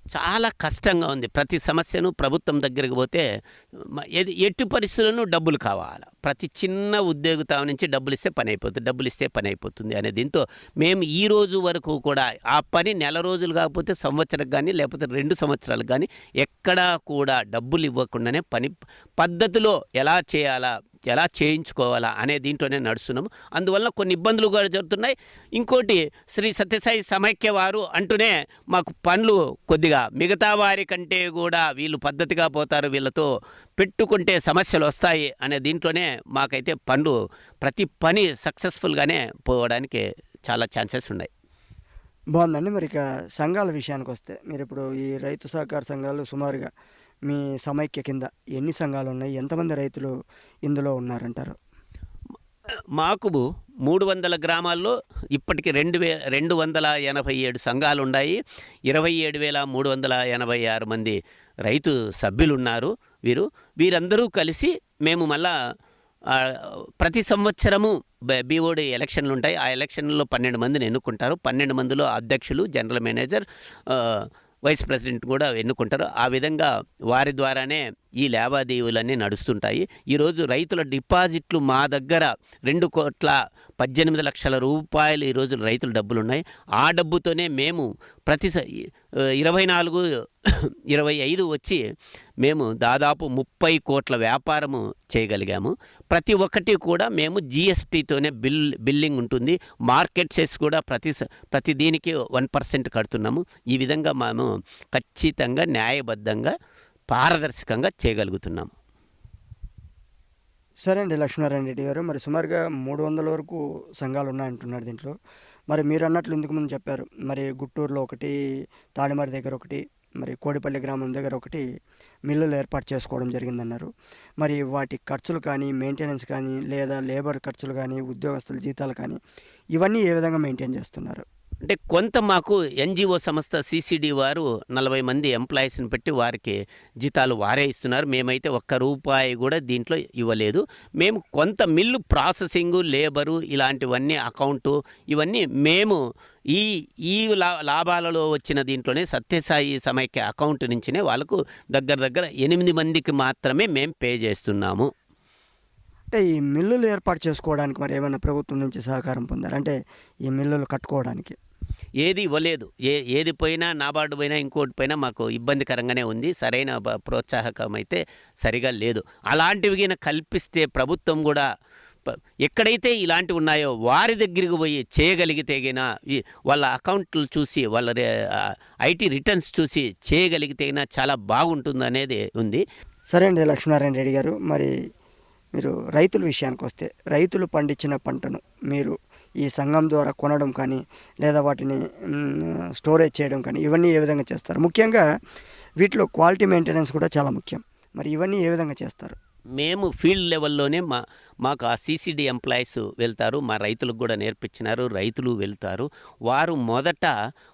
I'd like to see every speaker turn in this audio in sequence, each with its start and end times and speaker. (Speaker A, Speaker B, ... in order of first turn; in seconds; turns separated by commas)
Speaker A: 0.1-33.3, Speaker A: 33.8-41.3, Speaker B: 42.4-46.7, Speaker B: 47.3-50.1, Speaker B: 50.7-51.6, Speaker A: 53.0-65.5, Speaker A: 66.3-91.8, Speaker A: 92.4-106.5, Speaker A: 107.1-108.7, Speaker B: 110.8-115.1, Speaker B: 115.7-118.3, Speaker B: 119.0-121.6, Speaker B: 122.3-123.9, Speaker B: 124.4-129.2, Speaker B: 129.7-131.2, Speaker A: 131.6-146.0, Speaker A: 146.5-154.9, Speaker B: 156.1-159.8, Speaker B: 160.3-161.3, Speaker A: 162.0-171.4, Speaker A: 172.1-182.6, Speaker B: 183.1-184.7, Speaker B: 185.6-195.0, Speaker B: 195.8-199.2, Speaker A: 199.6-207.1